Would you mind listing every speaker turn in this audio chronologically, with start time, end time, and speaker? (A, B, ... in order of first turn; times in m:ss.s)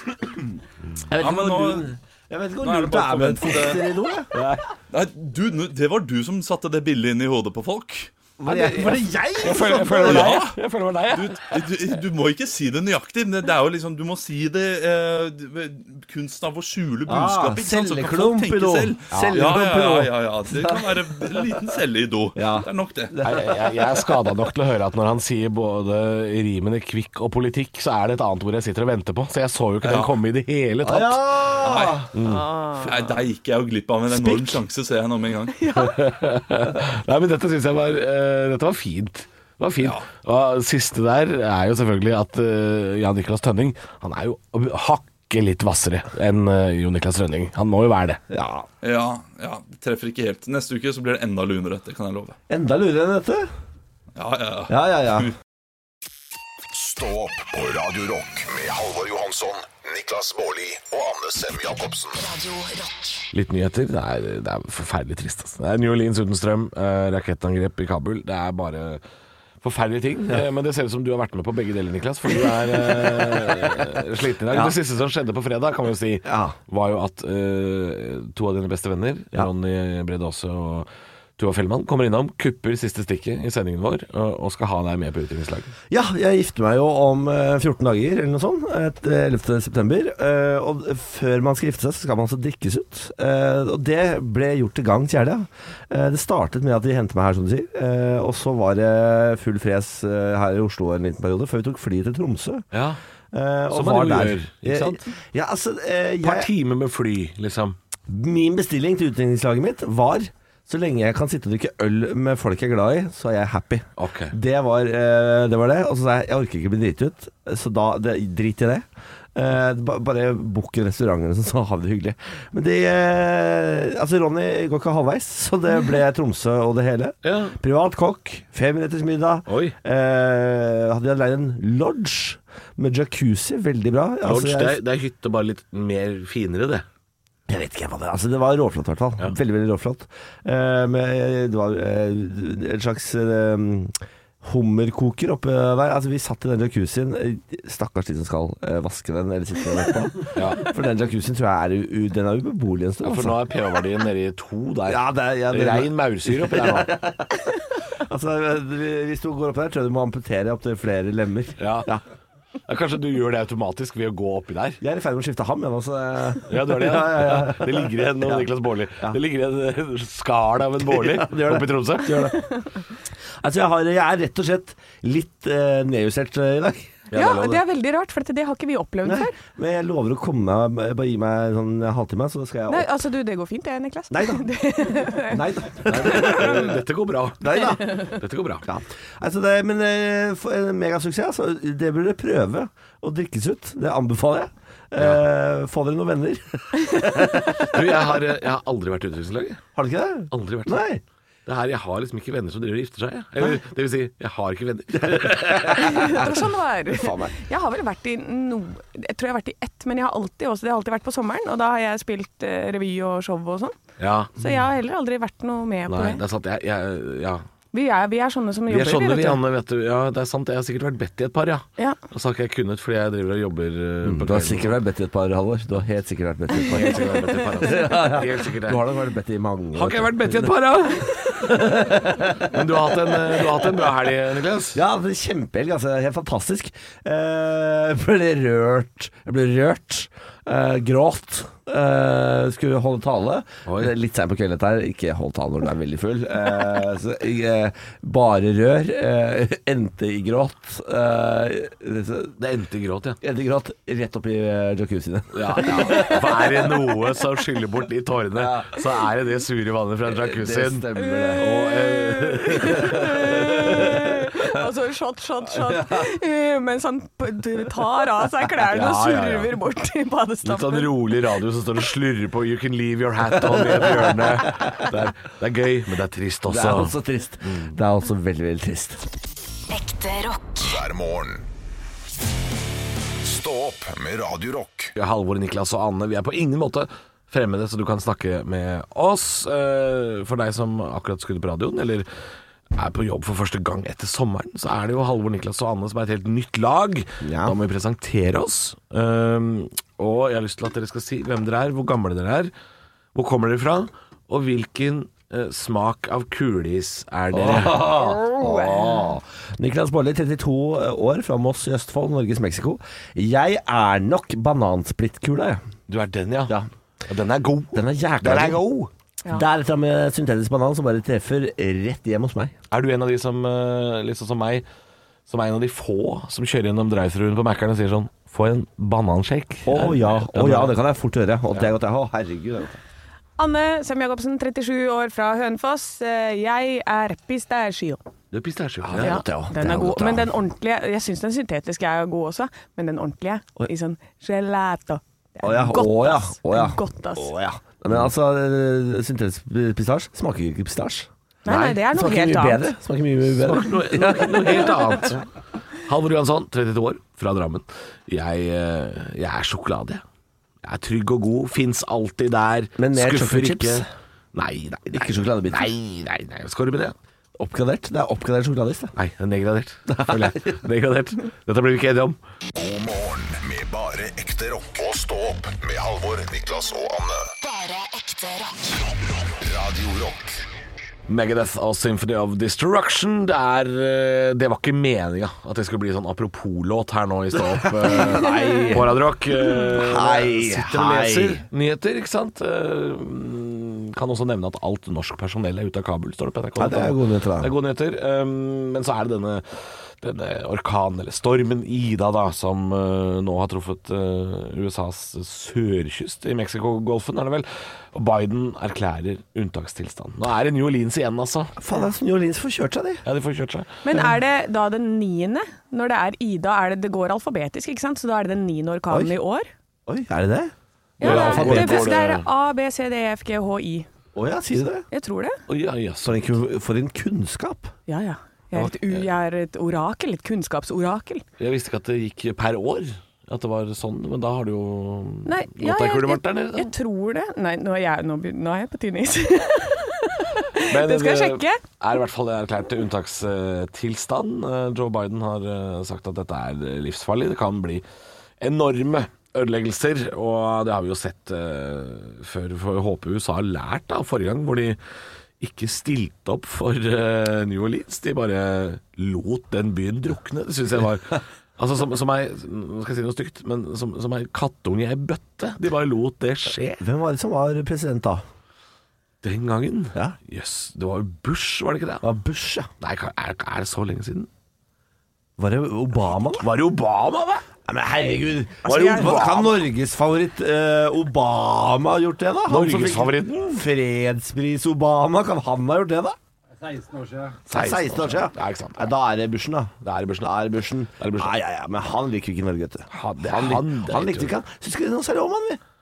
0:01.1-0:04.3 A
0:01.2-0:01.9 B
0:02.6-0:04.0 B
0:04.3-0:04.6 C
0:04.9-0:08.1 B
0:08.4-0:10.4 A
0:08.4-0:11.4 C
0:10.0-0:10.6 B
0:11.1-0:23.1 B
0:17.0-0:20.9 A
0:19.1-0:19.5 C
0:22.4-0:24.1 A
0:23.2-0:31.6 C
0:29.8-0:30.1 B
0:30.8-0:32.1 A
0:31.6-0:32.1 B
0:32.1-0:32.5 C
0:32.2-0:32.9 D
0:32.8-0:35.6 B
0:35.6-0:36.0 D
0:35.7-0:48.2 C
0:39.8-0:40.0 B
0:48.3-0:48.6 A
0:48.8-0:52.4 B
0:52.5-0:53.5 A
0:54.2-0:55.3 B
0:54.7-0:55.3 A
0:56.7-1:02.2 E
1:02.1-1:03.3 F
1:03.3-1:09.0 C
1:09.6-1:25.7 C
1:14.5-1:14.8 A
1:16.2-1:16.5 A
1:25.9-1:42.6 A
1:42.7-1:43.0 C
1:43.3-1:46.5 A
1:43.7-1:45.0 C
1:46.2-1:47.8 C
1:48.1-2:14.8 A
1:54.0-1:54.3 C
2:07.2-2:07.6 C
2:09.5-2:09.7 C
2:14.2-2:16.8 C
2:17.5-2:33.4 A
2:30.3-2:30.6 C
2:33.0-2:36.9 C
2:34.9-2:42.0 A
2:41.6-2:41.9 C
2:42.7-2:44.8 C
2:44.8-2:48.5 A
2:46.5-2:52.4 C
2:50.8-2:52.4 A
2:53.4-2:57.1 A
2:57.1-2:57.6 C
2:57.1-2:59.3 D
2:59.0-3:02.9 A
3:02.7-3:05.4 D
3:04.1-3:04.5 A
3:05.1-3:06.8 A
3:05.8-3:08.6 C
3:07.4-3:18.1 A
3:15.0-3:15.2 C
3:17.6-3:19.6 C
3:19.8-3:21.0 A
3:20.3-3:20.8 C
3:21.4-3:26.1 C
3:25.0-3:27.4 A
3:25.8-3:33.7 D
3:34.0-3:34.3 C
3:34.4-3:36.2 D
3:35.9-3:37.4 C
3:37.7-3:39.4 D
3:38.7-3:44.8 C
3:44.0-3:50.6 A
3:46.5-3:48.8 C
3:49.7-3:54.8 C
3:51.1-3:52.6 A
3:54.7-4:12.3 A
4:03.6-4:03.9 C
4:12.4-4:13.2 C
4:13.2-4:16.7 A
4:15.3-4:23.3 C
4:18.4-4:18.8 A
4:20.1-4:21.4 A
4:21.0-4:31.1 D
4:22.5-4:24.0 A
4:28.7-4:29.6 C
4:30.4-4:37.7 C
4:33.5-4:34.9 A
4:36.5-4:39.0 A
4:39.7-4:40.8 F
4:40.6-4:41.4 E
4:43.2-4:44.9 E
4:45.0-4:52.1 C
4:52.7-5:02.5 C
4:57.2-4:57.6 A
5:03.1-5:08.2 C
5:07.3-5:15.6 A
5:08.2-5:08.8 D
5:15.9-5:18.7 C
5:17.7-5:22.5 A
5:22.7-5:24.6 C
5:25.3-5:30.8 C
5:29.6-5:32.8 A
5:33.4-5:38.0 D
5:38.3-5:39.2 C
5:38.8-5:40.3 A
5:39.0-5:47.3 D
5:45.4-5:51.1 A
5:51.4-5:52.7 D
5:51.5-5:51.8 C
5:51.9-5:55.0 A
5:53.2-5:55.3 C
5:55.8-6:00.0 C
6:00.6-6:06.9 C
6:02.8-6:03.9 A
6:04.9-6:05.7 A
6:07.4-6:08.9 A
6:08.9-6:12.2 C
6:09.9-6:10.6 A
6:12.5-6:17.3 E
6:17.4-6:18.8 F
6:19.3-6:20.4 E
6:21.1-6:51.6 C
6:27.6-6:31.4 A
6:36.6-6:37.5 A
6:51.6-6:53.0 A
6:53.0-6:53.7 C
6:53.8-6:59.5 D
6:59.9-7:01.9 A
7:01.0-7:03.9 D
7:01.0-7:02.3 C
7:04.1-7:04.8 A
7:04.9-7:05.4 D
7:05.5-7:06.4 C
7:06.0-7:07.7 A
7:07.9-7:11.2 D
7:08.5-7:09.1 C
7:11.4-7:16.7 C
7:15.2-7:21.6 D
7:20.6-7:27.8 C
7:28.4-7:34.8 C
7:35.4-7:46.8 C
7:46.8-7:48.2 A
7:49.2-7:52.1 C
7:52.0-7:52.7 A
7:52.8-7:54.3 C
7:55.4-7:56.5 A
7:56.0-7:57.4 C
7:57.6-8:06.2 A
7:58.6-7:59.3 D
7:58.6-7:59.6 C
8:02.4-8:03.6 C
8:07.5-8:09.0 C
8:07.5-8:15.6 A
8:09.8-8:10.3 C
8:11.0-8:11.3 C
8:12.9-8:14.3 C